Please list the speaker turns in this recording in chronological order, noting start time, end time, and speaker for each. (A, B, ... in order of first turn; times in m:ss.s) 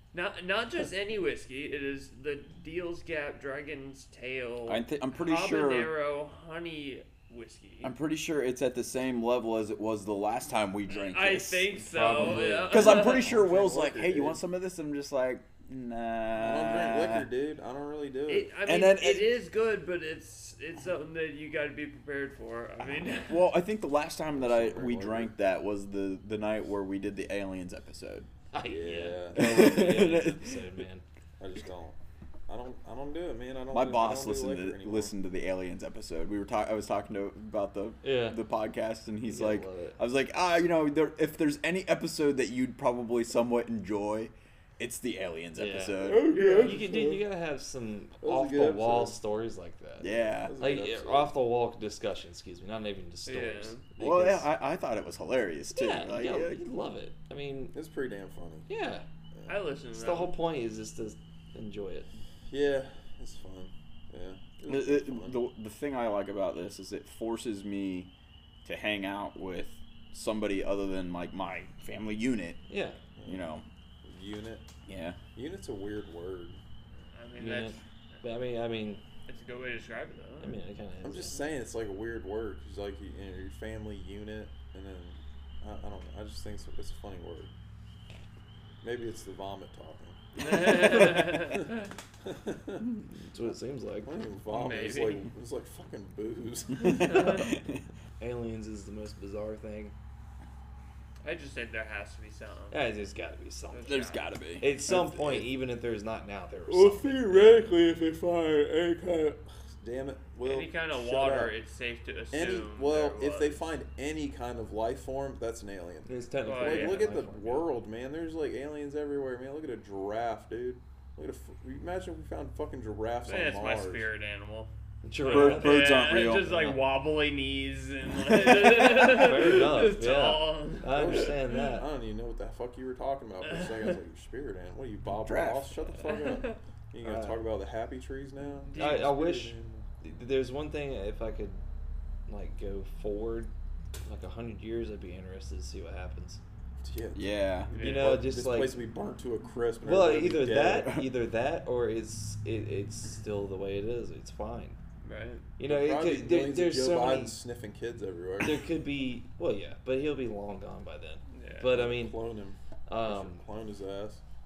0:00.1-0:07.9 A
0:04.7-0:05.9 B
0:07.8-0:17.3 B
0:10.9-0:13.3 A
0:11.8-0:13.5 C
0:13.2-0:14.4 D
0:16.4-0:18.5 D
0:18.3-0:23.5 A
0:18.7-0:19.3 B
0:23.2-0:28.3 B
0:24.3-0:25.3 D
0:28.5-0:31.0 C
0:28.6-0:30.0 D
0:29.4-0:30.6 B
0:31.4-0:32.0 D
0:32.5-0:35.1 D
0:33.7-0:46.5 B
0:38.0-0:38.4 C
0:39.3-0:40.0 C
0:45.6-0:54.5 C
0:46.0-0:47.2 D
0:46.3-0:46.8 A
0:48.2-0:49.2 D
0:50.0-0:50.6 B
0:50.0-0:51.3 D
0:53.3-0:53.8 A
0:54.0-0:56.7 B
0:55.7-0:57.8 C
0:57.7-0:58.7 D
0:58.7-0:59.0 C
0:59.3-0:59.6 D
0:59.5-1:00.4 A
0:59.9-1:02.1 C
1:02.5-1:05.4 D
1:04.7-1:08.1 B
1:08.6-1:12.6 B
1:12.7-1:13.0 C
1:13.2-1:14.7 D
1:13.2-1:13.6 B
1:14.9-1:15.2 B
1:15.4-1:16.6 D
1:17.1-1:18.2 A
1:17.4-1:19.0 C
1:19.3-1:20.6 A
1:20.4-1:21.4 C
1:21.0-1:27.5 D
1:28.8-1:31.7 D
1:30.4-1:31.9 A
1:32.2-1:32.9 D
1:33.1-1:34.3 C
1:34.0-1:37.5 D
1:34.5-1:35.2 A
1:36.8-1:37.5 A
1:36.9-1:37.8 B
1:38.2-1:40.0 C
1:41.2-1:42.8 A
1:42.7-1:44.0 C
1:43.7-1:44.3 A
1:43.9-1:45.4 B
1:44.6-1:47.8 C
1:46.7-1:51.5 D
1:50.4-1:53.7 A
1:52.3-2:04.1 D
1:56.0-1:57.7 C
1:56.4-1:57.1 A
2:03.2-2:11.6 A
2:05.0-2:06.8 C
2:05.3-2:06.5 B
2:08.9-2:11.9 C
2:10.9-2:19.9 D
2:13.4-2:14.0 A
2:15.1-2:15.8 B
2:16.0-2:16.6 A
2:17.0-2:17.4 C
2:18.6-2:19.1 A
2:18.8-2:21.6 C
2:22.3-2:23.5 C
2:24.0-2:26.4 C
2:26.8-2:31.0 D
2:27.1-2:27.7 B
2:27.7-2:28.2 A
2:27.8-2:28.8 C
2:29.8-2:34.8 C
2:35.0-2:35.5 A
2:35.6-2:37.4 C
2:35.6-2:38.7 D
2:38.4-2:42.2 C
2:41.3-2:41.7 A
2:41.7-2:44.2 D
2:42.9-2:43.4 C